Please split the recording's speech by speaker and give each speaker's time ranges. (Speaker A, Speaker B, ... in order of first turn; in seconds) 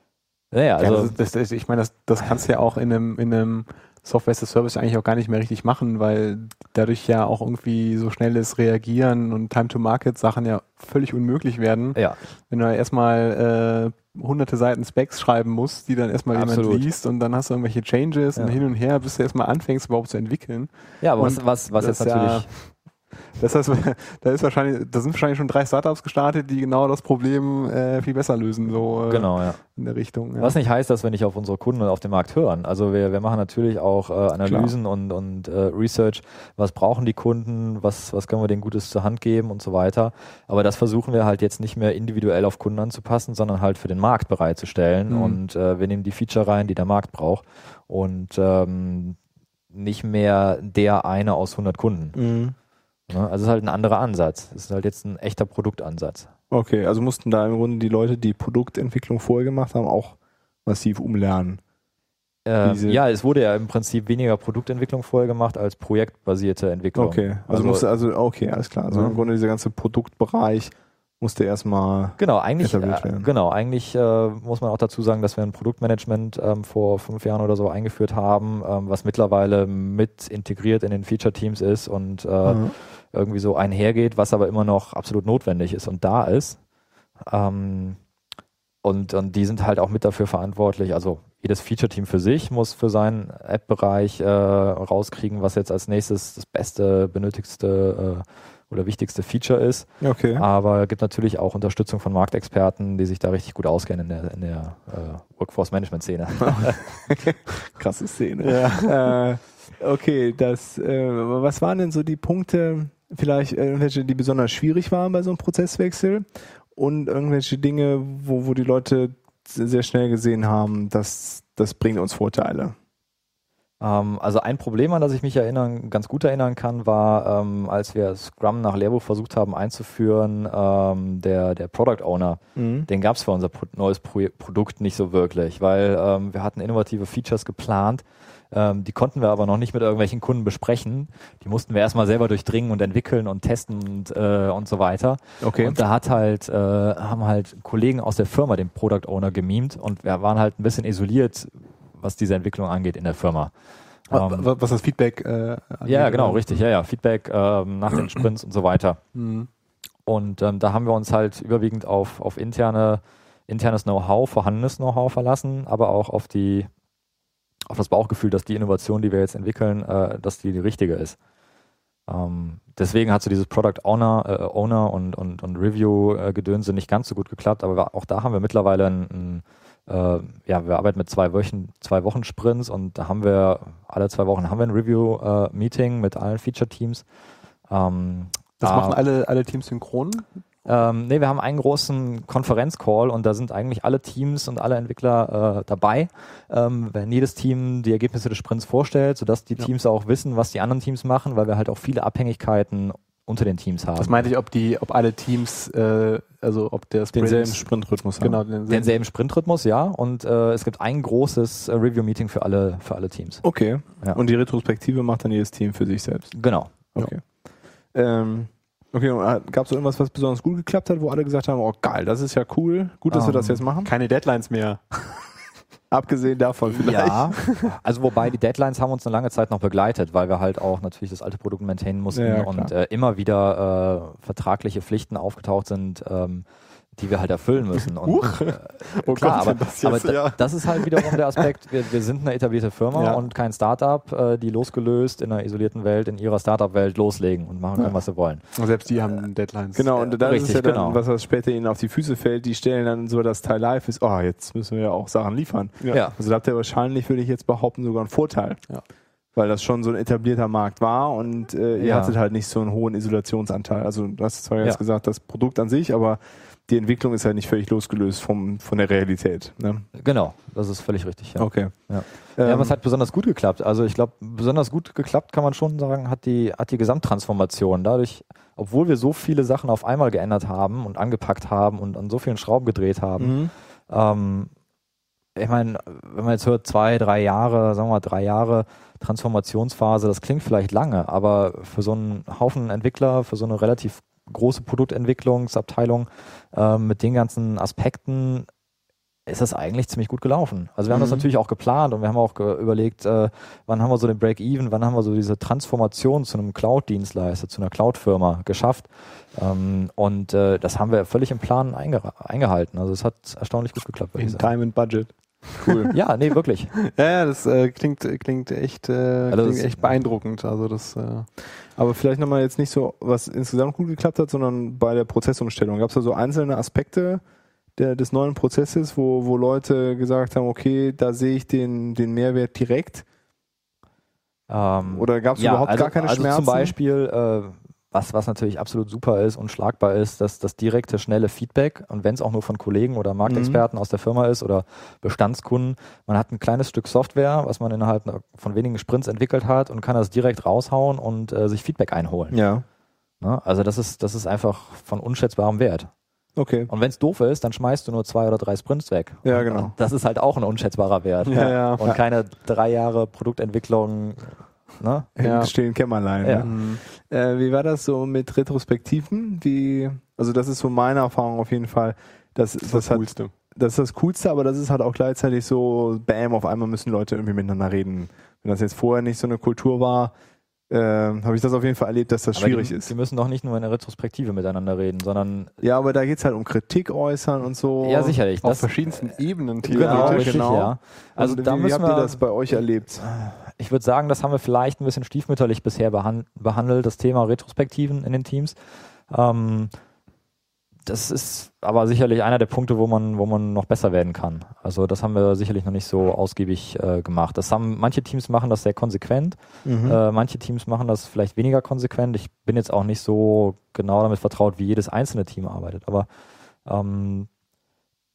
Speaker A: 0.5-1.2, 16.3-16.9, 21.0-22.5, 29.1-29.6, 30.4-49.2, 49.7-52.2, 53.1-56.3, 62.5-67.9, 68.9-69.2, 72.2-86.6, 87.3-88.0, 88.8-106.9, 123.8-153.5, 154.1-154.5, 155.9-159.0, 160.1-166.7, 167.7-171.2, 172.1-187.1, 187.7-189.0, 190.7-204.3, 208.7-213.4, 216.3-216.8, 223.1-223.6, 226.7-236.4, 237.0-248.4, 250.2-251.0, 255.9-256.1, 261.8-262.2, 269.9-283.4, 283.9-284.5, 285.4-298.5, 299.3-314.5, 315.9-316.7, 319.3-319.9, 334.5-352.4, 353.2-355.9, 356.7-365.1, 382.4-385.5, 387.8-388.7, 389.7-392.2, 393.0-398.6, 399.1-399.7, 400.9-416.1, 416.7-417.3
Speaker B: 0.8-12.0, 12.5-22.7, 23.4-30.6, 45.1-45.4, 108.4-109.1, 154.1-156.6, 159.2-159.5, 188.6-190.3, 204.0-207.7, 208.2-208.9, 223.8-225.0, 238.0-241.4, 242.9-243.2, 248.6-249.9, 314.2-315.9, 316.8-321.3, 361.2-361.8, 365.2-365.5, 366.4-366.8, 372.6-373.3, 388.4-390.5
Speaker C: 34.5-34.7, 52.1-52.5, 56.5-61.6, 62.6-63.0, 67.0-73.3, 82.5-82.7, 100.0-100.5, 106.4-122.8, 132.6-132.9, 145.4-145.8, 207.1-208.4, 213.4-216.3, 216.9-217.2, 217.9-223.9, 225.9-227.4, 232.1-232.7, 249.8-258.6, 259.4-269.9, 271.4-271.7, 272.4-272.7, 283.2-283.5, 300.9-301.2, 315.6-315.9, 321.8-327.2, 327.8-333.1, 334.9-336.8, 343.3-343.6, 352.3-352.6, 356.4-356.7, 359.2-359.7, 361.4-362.0, 365.2-380.1, 380.7-382.9, 385.6-388.2, 389.6-393.1, 409.6-410.0